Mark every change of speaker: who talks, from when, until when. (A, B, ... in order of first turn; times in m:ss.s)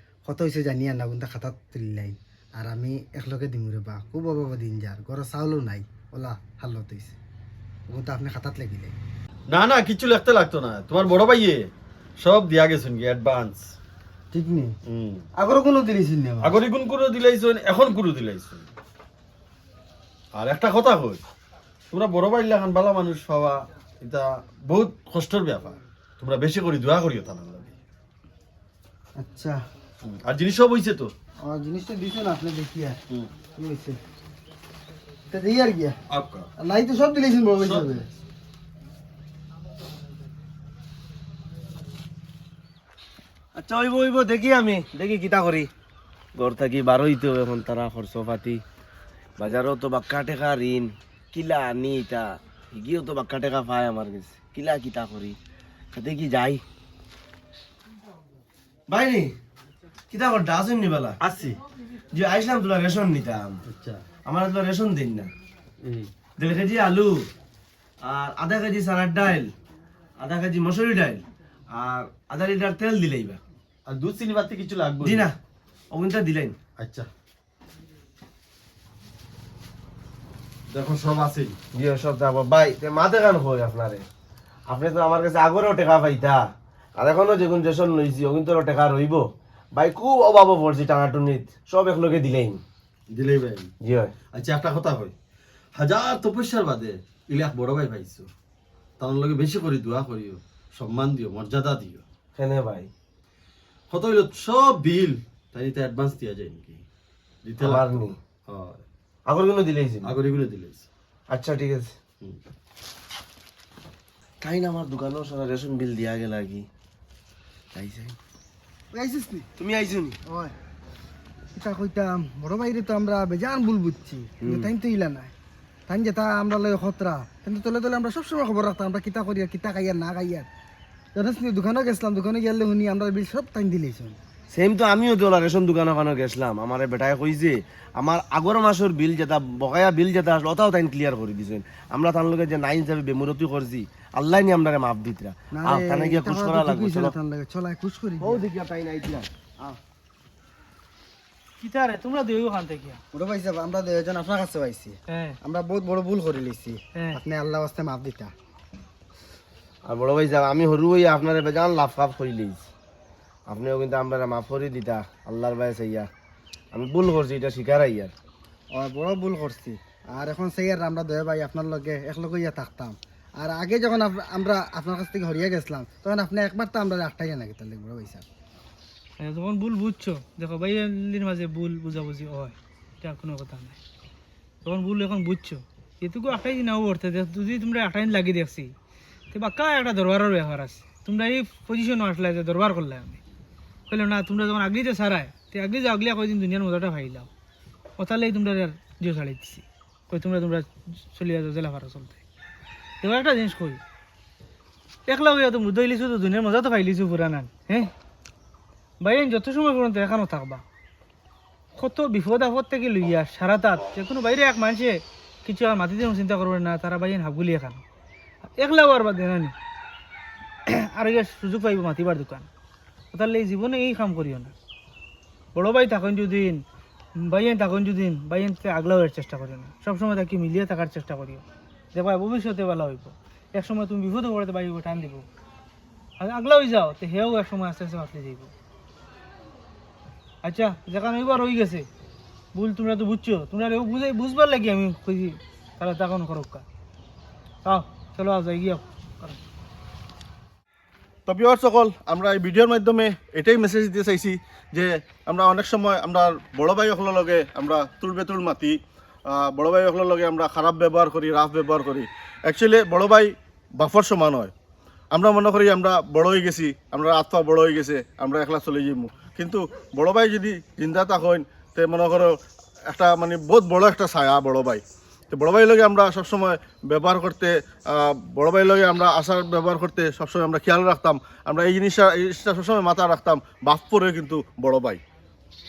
0:00.2-0:07.2 A
0:07.9-0:09.0 A
0:09.5-0:13.7 B
0:14.3-0:14.7 A
0:14.9-0:15.3 B
0:15.4-0:16.6 A
0:16.4-0:18.7 B
0:20.3-0:21.2 B
0:21.9-0:27.8 B
0:29.2-0:29.6 A
0:30.0-0:31.1 B
0:31.5-0:33.0 A
0:33.6-0:34.0 A
0:35.3-0:36.0 A
0:36.1-0:36.5 B
0:36.6-0:38.1 A
0:37.6-0:38.0 B
0:43.6-0:45.7 C
0:46.4-0:48.6 C
0:49.4-0:55.4 C
0:55.9-0:56.6 C
0:58.9-0:59.3 C
1:00.1-1:01.2 C
1:01.2-1:01.6 B
1:02.1-1:03.6 C
1:03.7-1:04.0 B
1:04.3-1:05.3 C
1:05.8-1:06.1 B
1:06.4-1:07.3 C
1:08.0-1:09.5 C
1:10.2-1:13.4 C
1:13.9-1:15.3 B
1:15.0-1:15.4 C
1:15.9-1:16.6 C
1:16.8-1:17.1 B
1:20.7-1:21.6 B
1:21.8-1:24.1 C
1:24.7-1:26.4 C
1:27.0-1:29.2 C
1:29.8-1:32.6 C
1:33.1-1:33.7 B
1:33.8-1:34.1 C
1:34.3-1:35.2 B
1:35.8-1:38.3 B
1:39.0-1:42.0 B
1:42.4-1:42.9 C
1:43.9-1:46.8 B
1:47.4-1:47.9 B
1:47.6-1:48.2 C
1:48.5-1:48.8 B
1:49.3-1:50.1 C
1:50.0-1:50.9 B
1:51.3-1:51.9 C
1:54.4-1:56.7 C
1:57.7-1:58.2 C
1:58.9-1:59.5 A
1:59.6-2:00.2 C
2:00.3-2:00.5 A
2:01.5-2:05.3 A
2:04.4-2:04.7 C
2:05.9-2:10.5 A
2:11.2-2:14.2 A
2:14.5-2:27.2 C
2:25.5-2:28.4 A
2:28.2-2:29.8 C
2:31.6-2:33.0 D
2:33.1-2:38.3 A
2:35.1-2:35.4 D
2:39.8-2:42.6 C
2:43.5-2:46.1 C
2:46.7-2:48.1 C
2:48.7-2:58.2 A
2:59.2-3:03.8 D
3:04.6-3:08.7 D
3:09.3-3:13.2 D
3:13.9-3:17.3 D
3:18.0-3:22.2 D
3:23.0-3:23.8 D
3:25.1-3:27.9 D
3:29.0-3:30.6 D
3:31.8-3:37.8 D
3:38.6-3:39.5 D
3:40.7-3:42.5 D
3:43.1-3:44.5 D
3:45.6-3:46.6 D
3:47.2-3:55.3 D
3:56.2-3:58.5 D
4:00.4-4:01.9 D
4:02.6-4:06.6 D
4:07.6-4:09.4 D
4:11.3-4:18.8 E
4:19.3-4:24.5 E
4:25.1-4:32.3 E
4:32.9-4:45.0 E